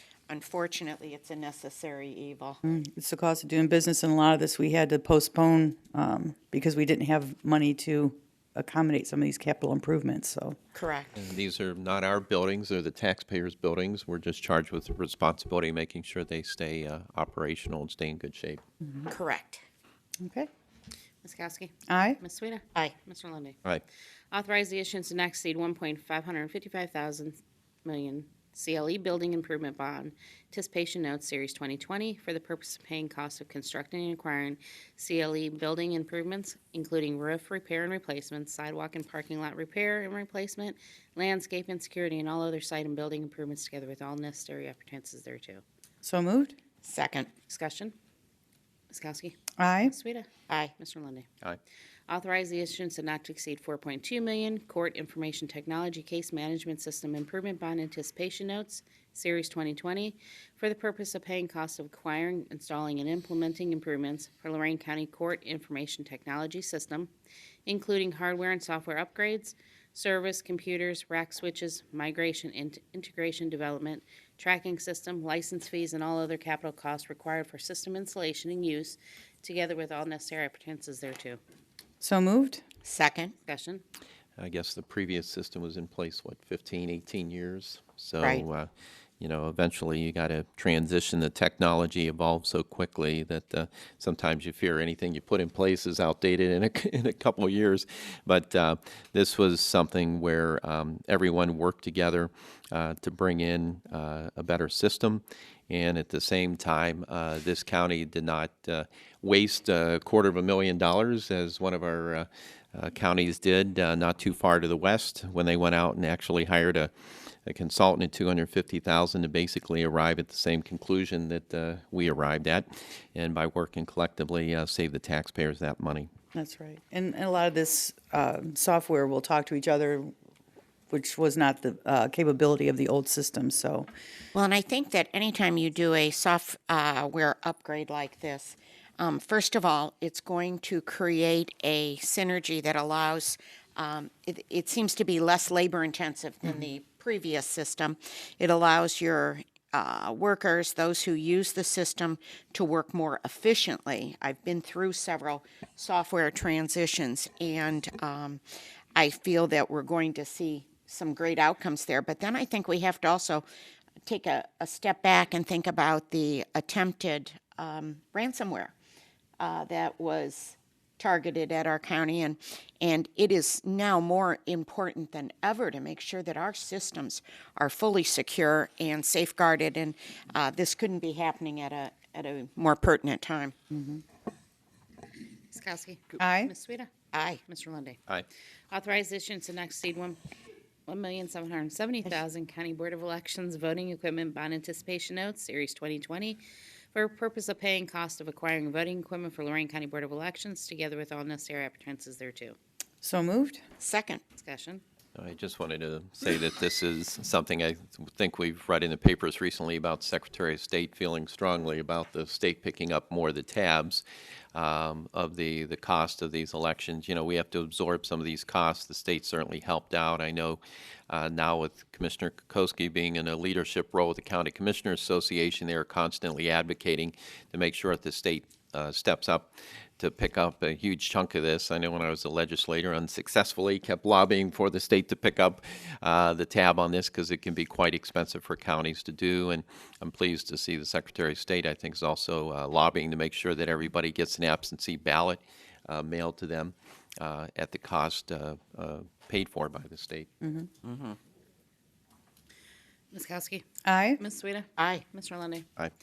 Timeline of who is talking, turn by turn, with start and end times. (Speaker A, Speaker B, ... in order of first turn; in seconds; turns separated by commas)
Speaker A: 0.3-2.6, Speaker B: 2.6-10.6, Speaker A: 10.7-11.2, Speaker C: 11.2-18.6, Speaker B: 18.8-19.1, Speaker A: 19.1-19.6, Speaker B: 20.2-20.5, Speaker D: 21.2-23.6, Speaker B: 21.9-22.2, Speaker D: 24.3-45.6, Speaker B: 46.0-46.5, Speaker A: 46.8-47.3, Speaker D: 47.5-47.9, Speaker D: 48.9-51.3, Speaker B: 49.6-49.9, Speaker D: 52.1-67.1, Speaker D: 67.7-81.4, Speaker B: 82.0-82.6, Speaker A: 82.8-83.3, Speaker D: 83.5-83.8, Speaker C: 84.4-88.7, Speaker C: 89.2-116.9, Speaker C: 117.5-126.1, Speaker B: 126.3-130.1, Speaker B: 130.9-133.9, Speaker A: 134.3-158.4, Speaker A: 158.9-163.4, Speaker A: 164.1-168.7, Speaker A: 169.4-183.5, Speaker B: 183.7-184.0, Speaker D: 185.5-186.9, Speaker B: 186.2-186.5, Speaker A: 187.1-187.4, Speaker D: 187.4-188.0, Speaker D: 188.7-190.2, Speaker D: 190.9-196.4, Speaker D: 196.9-202.6, Speaker B: 203.0-203.6, Speaker A: 203.8-204.2, Speaker D: 204.3-204.8, Speaker C: 205.2-250.3, Speaker B: 250.4-250.7, Speaker A: 250.8-251.2, Speaker D: 253.1-253.7, Speaker B: 253.8-254.2, Speaker D: 254.2-255.7, Speaker A: 254.8-255.0